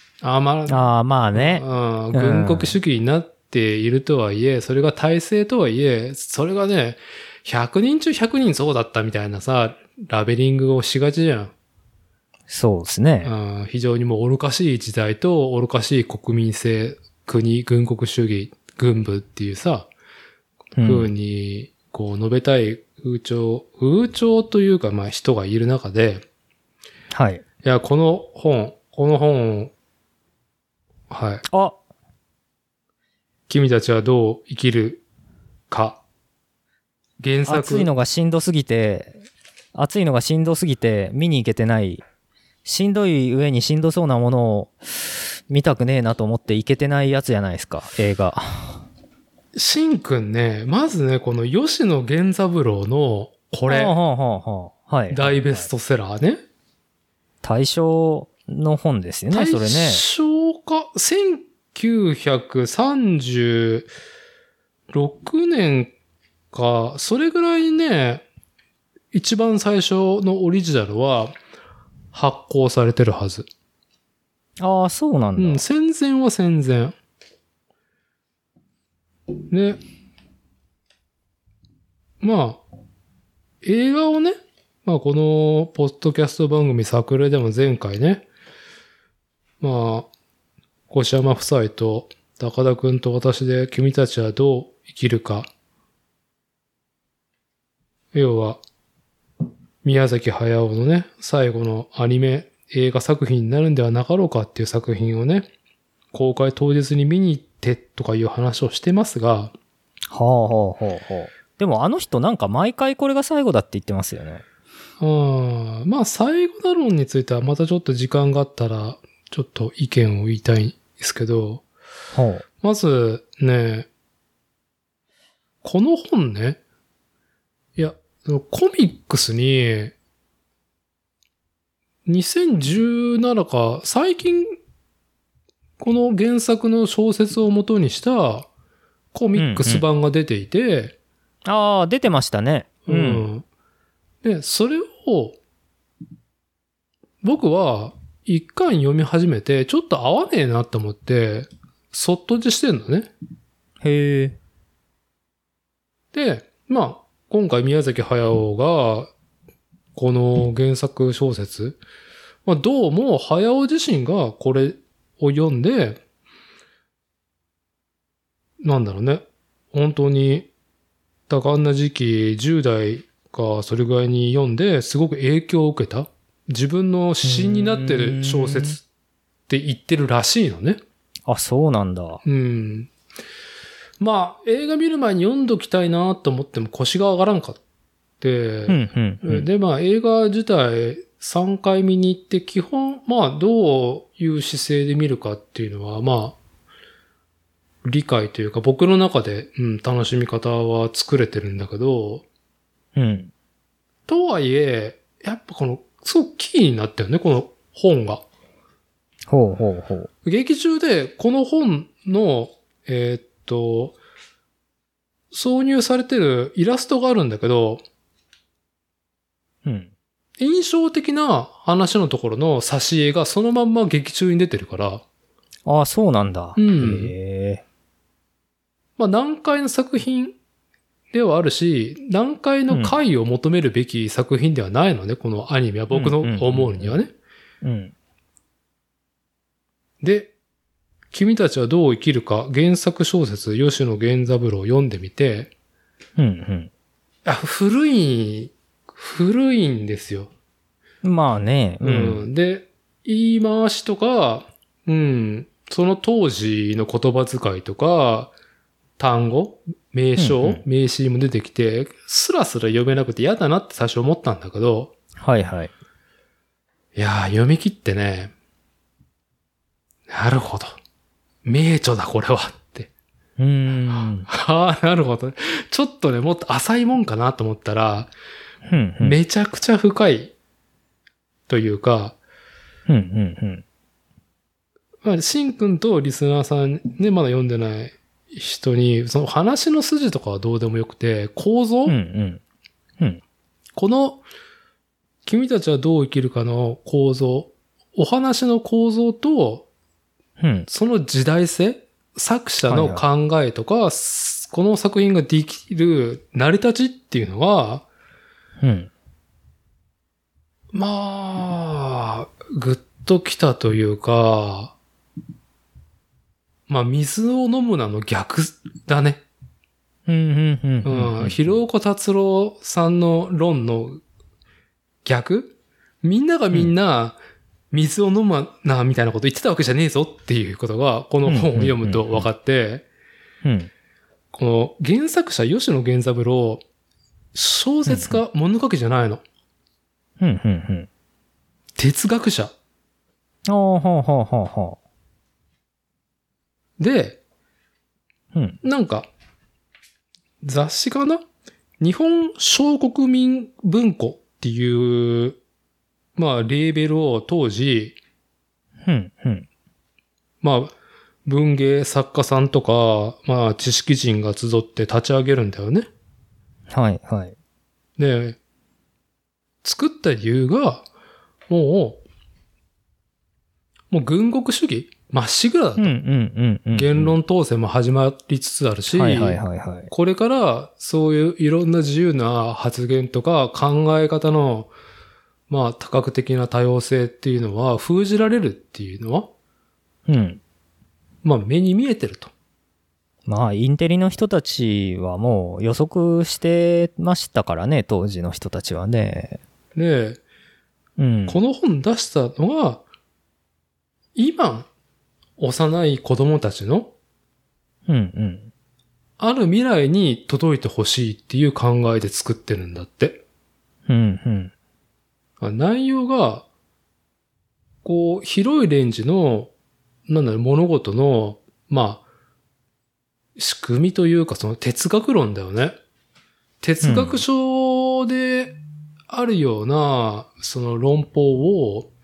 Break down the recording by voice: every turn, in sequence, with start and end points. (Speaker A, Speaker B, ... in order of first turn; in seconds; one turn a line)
Speaker A: 0.2-11.5
Speaker B: 0.7-2.8
Speaker B: 12.5-13.3
Speaker A: 13.2-19.9
Speaker B: 20.8-21.1
Speaker A: 20.8-26.2
Speaker B: 27.1-27.4
Speaker A: 27.6-29.7
Speaker A: 31.1-31.4
Speaker B: 31.5-31.8
Speaker A: 33.5-35.0
Speaker A: 35.7-36.0
Speaker A: 37.2-37.9
Speaker B: 37.5-39.1
Speaker B: 39.7-42.0
Speaker B: 42.6-48.8
Speaker A: 49.5-53.9
Speaker B: 53.7-55.7
Speaker A: 55.1-56.4
Speaker B: 57.4-60.0
Speaker A: 59.3-63.9
Speaker A: 64.9-65.9
Speaker A: 66.5-68.2
Speaker A: 69.1-71.3
Speaker A: 72.1-73.5
Speaker B: 74.6-75.6
Speaker A: 75.4-76.9
Speaker A: 79.5-79.8
Speaker A: 82.2-82.6
Speaker A: 83.6-88.2
Speaker A: 89.6-90.1
Speaker A: 90.9-95.5
Speaker A: 98.1-98.6
Speaker A: 99.8-105.5
Speaker A: 106.1-109.5
Speaker B: 110.1-114.4
Speaker A: 115.0-121.6
Speaker B: 122.1-122.4
Speaker A: 122.6-123.9
Speaker A: 125.6-126.6
Speaker A: 127.8-129.9
Speaker A: 132.1-134.5
Speaker A: 135.8-138.5
Speaker A: 139.1-140.9
Speaker B: 139.3-139.8
Speaker B: 141.4-143.3
Speaker A: 142.8-143.4
Speaker A: 144.2-145.4
Speaker A: 147.2-153.1
Speaker B: 153.8-154.4
Speaker A: 156.1-159.1
Speaker A: 159.9-161.8
Speaker A: 162.4-166.0
Speaker A: 168.6-170.5
Speaker A: 171.3-178.8
Speaker B: 177.2-178.8
Speaker A: 179.5-180.8
Speaker B: 181.3-182.2
Speaker A: 182.2-182.9
Speaker A: 184.0-187.6
Speaker A: 188.2-196.4
Speaker B: 188.7-189.5
Speaker A: 197.8-202.2
Speaker B: 202.9-203.3
Speaker A: 204.1-208.2
Speaker B: 209.3-210.1
Speaker A: 210.2-214.0
Speaker A: 215.3-217.8
Speaker B: 219.6-219.9
Speaker A: 220.4-225.0
Speaker B: 225.7-227.6
Speaker A: 226.6-227.1
Speaker A: 229.0-230.3
Speaker A: 231.1-237.1
Speaker B: 232.7-232.9
Speaker B: 235.9-237.0
Speaker B: 237.6-237.9
Speaker A: 240.0-240.3
Speaker A: 241.1-245.5
Speaker B: 246.2-246.7
Speaker A: 247.2-250.3
Speaker B: 251.0-252.2
Speaker A: 251.8-258.3
Speaker A: 259.0-264.9
Speaker B: 260.2-260.6
Speaker B: 265.2-265.7
Speaker A: 266.9-268.3
Speaker A: 270.1-270.8
Speaker A: 271.4-272.9
Speaker B: 273.4-274.3
Speaker A: 273.9-278.1
Speaker B: 278.6-279.2
Speaker A: 279.0-280.3
Speaker A: 281.5-282.2
Speaker B: 282.9-283.6
Speaker A: 285.0-291.9
Speaker B: 291.8-292.4
Speaker A: 293.7-294.2
Speaker A: 295.2-299.6
Speaker B: 300.4-300.7
Speaker A: 300.7-307.8
Speaker B: 302.6-303.0
Speaker B: 308.6-308.9
Speaker A: 310.7-314.7
Speaker A: 316.7-319.2
Speaker B: 320.1-321.6
Speaker A: 320.8-324.0
Speaker A: 325.0-327.2
Speaker A: 327.7-332.9
Speaker B: 331.2-332.2
Speaker B: 333.4-333.7
Speaker A: 334.3-336.6
Speaker A: 337.3-339.2
Speaker B: 337.9-338.2
Speaker B: 340.2-340.9
Speaker A: 341.8-342.5
Speaker B: 343.5-344.8
Speaker A: 346.8-347.2
Speaker B: 348.3-348.6
Speaker A: 348.6-349.1
Speaker A: 350.4-351.2
Speaker A: 351.8-355.4
Speaker A: 356.1-357.9
Speaker B: 358.9-359.5
Speaker A: 360.4-360.7
Speaker A: 361.2-365.9
Speaker B: 366.7-367.3
Speaker A: 368.0-368.4
Speaker A: 369.6-370.9
Speaker A: 371.5-372.0
Speaker A: 373.9-375.9
Speaker B: 375.8-377.1
Speaker A: 376.7-384.7
Speaker B: 378.9-379.9
Speaker A: 385.5-389.3
Speaker B: 390.1-390.4
Speaker A: 391.2-392.3
Speaker B: 393.2-399.4
Speaker A: 399.7-400.2
Speaker B: 401.0-401.4
Speaker A: 401.3-402.8
Speaker A: 404.1-404.7
Speaker A: 405.4-406.9
Speaker B: 407.9-408.5
Speaker A: 409.2-413.2
Speaker B: 413.9-414.5
Speaker A: 415.4-416.4
Speaker A: 417.8-419.5
Speaker A: 420.1-422.0
Speaker A: 423.4-425.8
Speaker A: 426.6-428.6
Speaker B: 426.8-427.2
Speaker A: 429.1-431.9